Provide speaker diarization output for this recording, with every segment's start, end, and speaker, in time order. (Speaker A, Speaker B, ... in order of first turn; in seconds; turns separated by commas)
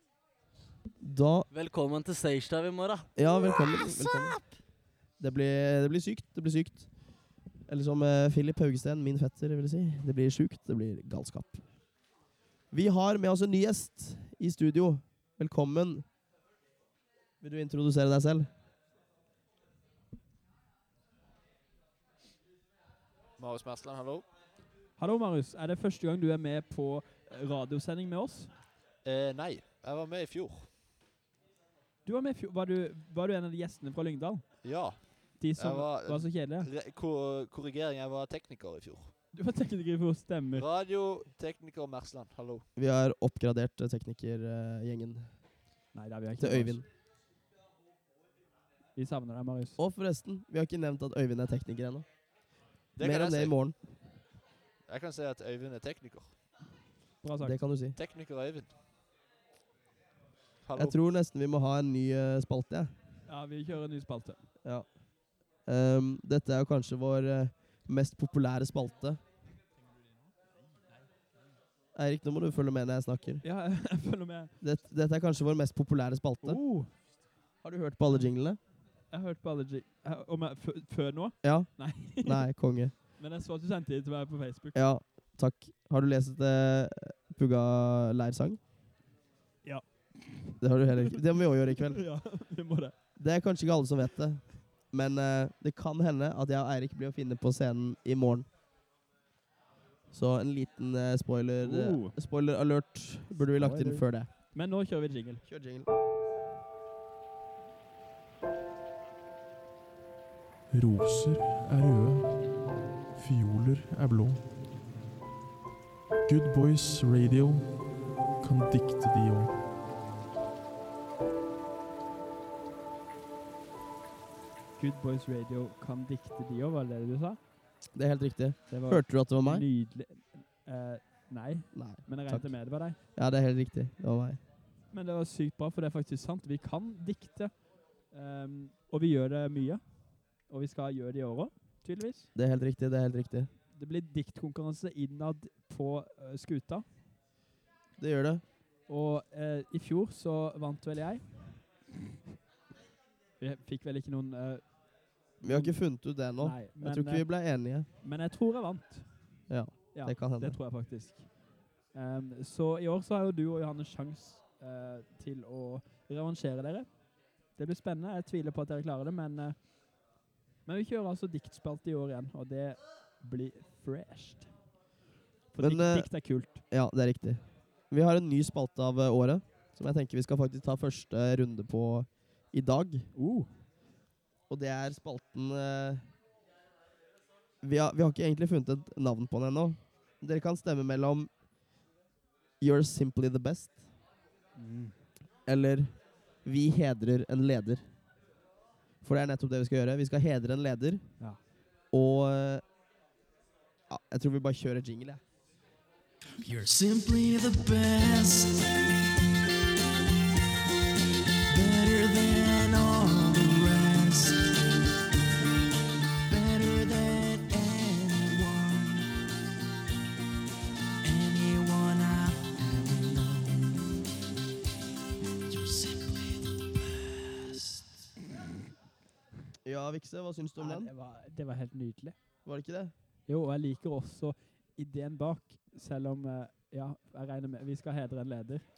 Speaker A: 1.0-1.5, Speaker B: 1.5-4.3, Speaker A: 3.2-4.4, Speaker A: 5.2-6.9, Speaker A: 7.7-11.6, Speaker A: 12.7-16.1, Speaker A: 17.4-18.5, Speaker C: 23.4-24.3, Speaker D: 25.0-28.5, Speaker C: 29.1-30.7, Speaker D: 32.1-34.5, Speaker C: 34.6-39.1, Speaker D: 35.4-36.7, Speaker D: 39.3-40.7, Speaker C: 40.6-42.6, Speaker A: 42.8-45.3, Speaker D: 45.9-46.8, Speaker A: 46.4-46.9, Speaker D: 49.0-49.8, Speaker A: 49.8-52.1, Speaker C: 53.0-53.5, Speaker A: 53.0-53.8, Speaker C: 54.9-56.4, Speaker D: 57.2-57.6, Speaker A: 57.4-58.0, Speaker C: 58.0-58.7, Speaker C: 60.6-61.0, Speaker A: 60.8-62.9, Speaker D: 63.3-64.4, Speaker A: 65.7-69.2, Speaker A: 72.0-73.4, Speaker D: 73.4-74.5, Speaker A: 74.6-76.6, Speaker D: 76.4-76.9, Speaker A: 77.6-78.6, Speaker D: 79.1-82.5, Speaker A: 81.4-82.9, Speaker D: 83.2-84.8, Speaker A: 84.8-88.6, Speaker D: 89.6-91.2, Speaker A: 90.6-92.0, Speaker D: 91.8-92.9, Speaker A: 93.2-98.5, Speaker A: 100.1-104.3, Speaker D: 101.6-102.2, Speaker D: 103.6-105.4, Speaker A: 105.5-105.9, Speaker E: 110.7-112.6, Speaker E: 113.1-114.5, Speaker E: 116.3-119.6, Speaker D: 124.8-127.4, Speaker A: 128.0-129.7, Speaker D: 128.7-133.0, Speaker A: 131.7-132.6, Speaker A: 133.2-134.4, Speaker D: 134.9-137.5, Speaker D: 138.1-139.8, Speaker D: 140.5-142.3, Speaker A: 142.3-143.5, Speaker D: 143.8-146.8, Speaker A: 148.0-148.4, Speaker D: 148.9-151.2, Speaker D: 153.4-154.7, Speaker D: 155.4-155.8, Speaker A: 155.4-157.9, Speaker D: 156.4-157.3, Speaker D: 158.0-159.1, Speaker A: 159.5-160.6, Speaker D: 159.9-161.4, Speaker D: 161.9-166.9, Speaker D: 167.6-169.6, Speaker D: 170.7-174.5, Speaker D: 175.5-176.6, Speaker A: 175.6-176.1, Speaker A: 176.7-183.1, Speaker D: 183.2-183.5, Speaker A: 184.5-186.0, Speaker A: 187.6-191.3, Speaker A: 192.6-193.8, Speaker D: 194.6-194.9, Speaker A: 195.5-195.9, Speaker A: 196.4-197.8, Speaker A: 199.0-201.1, Speaker A: 201.9-202.7, Speaker A: 203.9-205.2, Speaker F: 206.4-208.7, Speaker F: 211.5-214.5, Speaker F: 216.3-219.1, Speaker F: 221.0-223.9, Speaker F: 225.5-226.6, Speaker A: 229.6-230.9, Speaker D: 230.6-232.2, Speaker A: 232.4-232.9, Speaker D: 233.3-238.7